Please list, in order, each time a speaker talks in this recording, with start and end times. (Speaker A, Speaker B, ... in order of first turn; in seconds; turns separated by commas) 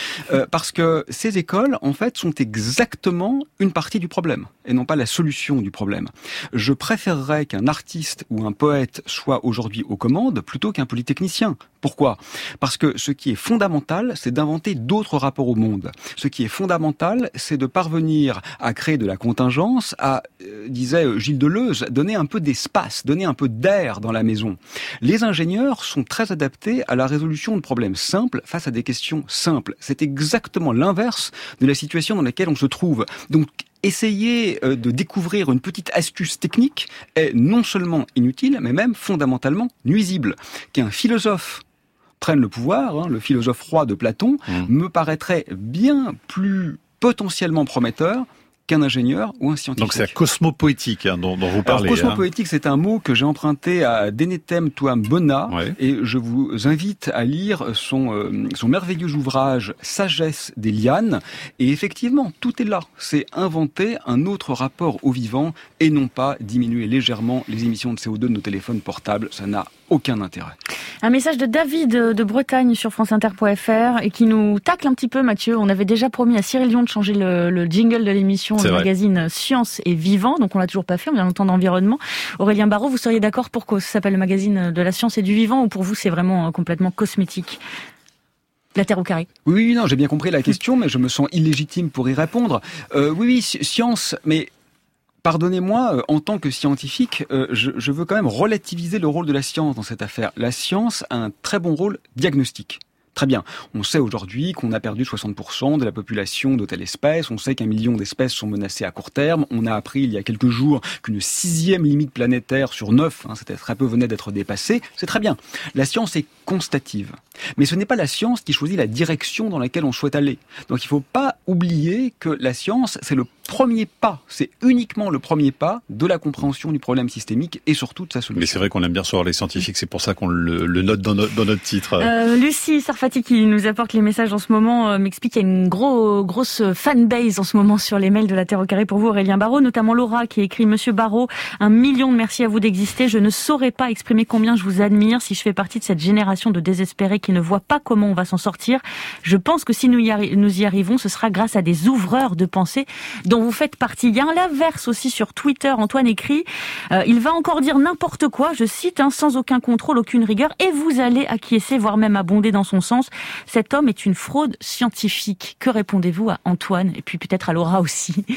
Speaker A: 0.3-41.6, Speaker A: 42.2-50.1, Speaker B: 49.8-52.2, Speaker A: 51.6-70.5, Speaker B: 55.5-55.7, Speaker C: 71.0-87.6, Speaker B: 78.6-78.9, Speaker C: 88.8-89.3, Speaker A: 89.4-94.5, Speaker A: 95.2-128.6, Speaker B: 128.3-132.1, Speaker C: 132.0-168.2